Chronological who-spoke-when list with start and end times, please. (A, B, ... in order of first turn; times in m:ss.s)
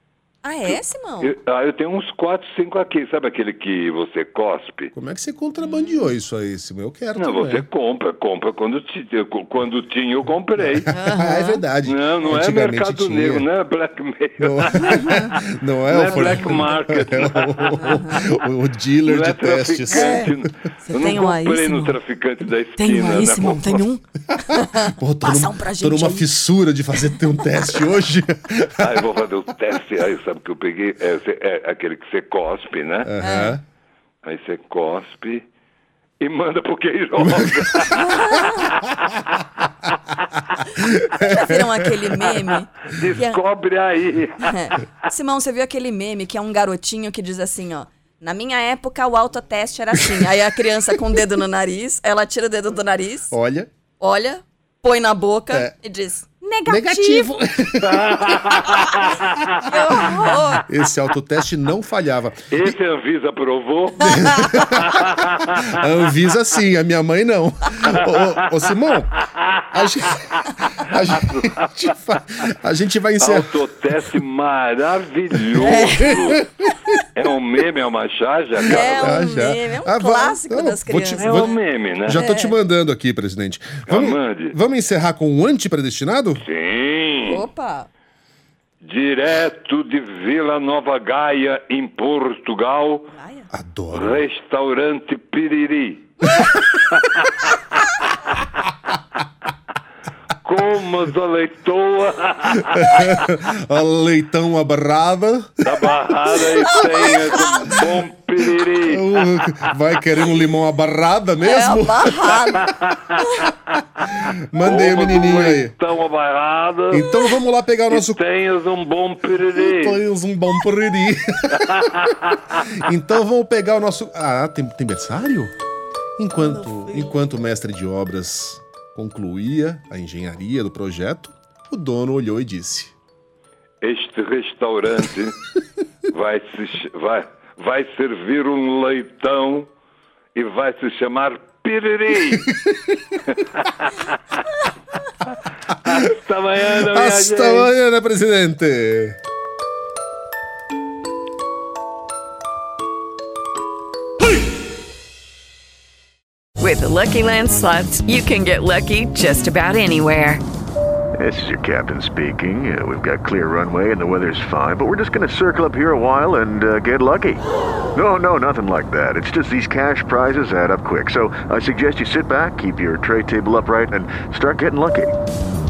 0:00.4-0:01.3 A
0:00.6-0:04.9 B
0:04.9-0:07.7 C
0:07.2-0:10.9 B
0:10.8-0:13.5 C
0:10.9-0:11.6 A
0:11.8-0:18.3 B
0:14.4-0:20.5 C
0:19.0-0:23.8 B
0:19.9-0:20.3 A
0:20.9-0:22.0 A
0:22.8-0:26.3 A
0:24.4-0:29.0 C
0:28.8-0:33.1 B
0:33.0-0:33.6 C
0:33.2-0:33.6 A
0:34.2-0:35.4 B
0:36.2-0:39.2 B
0:37.2-0:38.6 C
0:38.0-0:38.7 A
0:40.8-0:42.3 C
0:41.1-0:43.4 A
0:42.9-0:44.8 B
0:44.5-0:53.3 A
0:50.0-0:51.2 C
0:53.3-0:53.7 C
0:54.0-0:57.3 A
0:56.7-0:58.5 C
0:57.8-1:00.4 B
0:59.7-1:00.6 A
1:00.0-1:02.7 C
1:02.5-1:05.7 B
1:04.0-1:13.6 C
1:07.8-1:08.7 B
1:10.1-1:12.4 B
1:13.2-1:19.3 B
1:15.6-1:17.0 C
1:15.6-1:16.4 A
1:18.6-1:26.4 C
1:18.7-1:21.5 A
1:21.2-1:22.2 B
1:22.2-1:22.5 A
1:23.9-1:24.6 B
1:26.4-1:27.5 B
1:27.3-1:27.9 A
1:28.8-1:33.1 B
1:33.1-1:33.5 A
1:33.5-1:34.2 C
1:33.9-1:36.2 B
1:36.7-1:37.5 B
1:40.4-1:43.2 B
1:42.7-1:45.9 C
1:45.6-1:50.4 B
1:46.5-1:47.9 C
1:48.8-1:52.7 C
1:51.4-1:52.6 A
1:52.2-1:57.1 B
1:54.3-1:55.8 C
1:56.9-1:58.2 C
1:57.9-2:00.0 B
1:59.6-2:01.8 C
2:01.5-2:02.7 B
2:02.7-2:05.5 C
2:06.2-2:12.9 C
2:13.8-2:15.4 B
2:16.1-2:19.7 B
2:20.4-2:22.5 B
2:22.5-2:22.9 C
2:23.3-2:24.4 B
2:25.7-2:27.7 B
2:26.8-2:29.2 C
2:36.6-2:40.4 D
2:41.2-2:47.4 E
2:47.9-2:55.1 E